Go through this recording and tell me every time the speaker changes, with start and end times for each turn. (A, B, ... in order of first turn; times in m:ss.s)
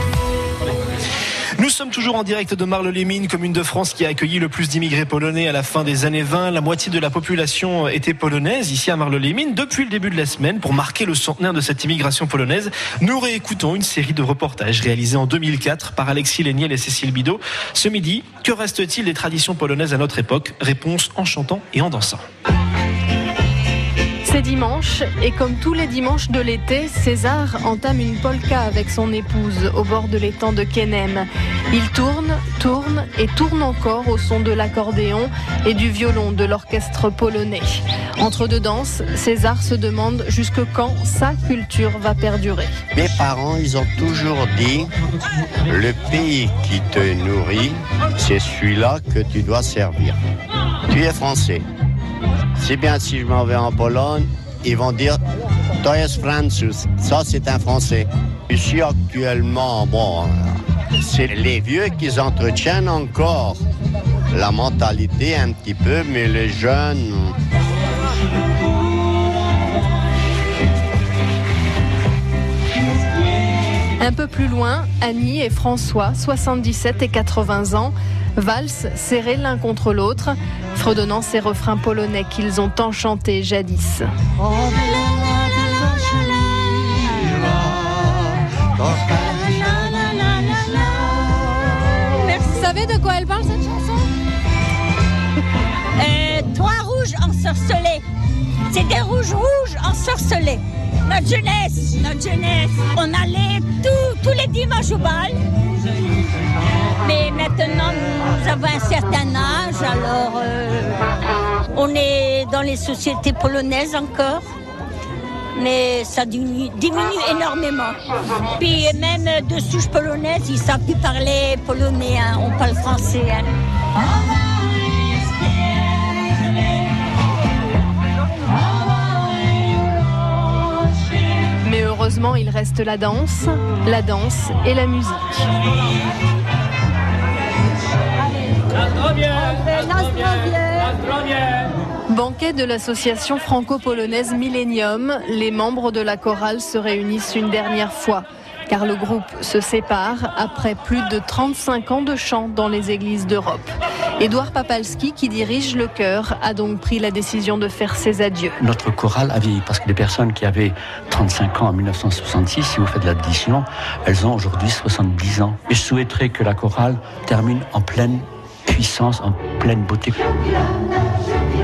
0:01.6-0:22.2 A
0:24.2-0:42.8 B
0:42.9-0:44.9 C
0:45.7-0:50.2 C
0:50.9-0:51.6 C
0:52.6-0:55.2 C
0:55.8-1:03.6 C
1:04.3-1:07.4 C
1:14.0-1:24.1 B
1:27.1-1:27.6 D
1:29.1-1:31.2 D
1:32.2-1:32.8 D
1:32.6-1:33.8 B
1:36.0-1:38.0 D
1:38.7-1:45.4 D
1:47.0-1:51.0 D
1:51.7-1:54.4 D
1:55.6-1:58.0 D
1:58.6-2:03.5 D
2:11.6-2:15.5 B
2:22.1-2:38.6 B
2:38.6-2:50.2 E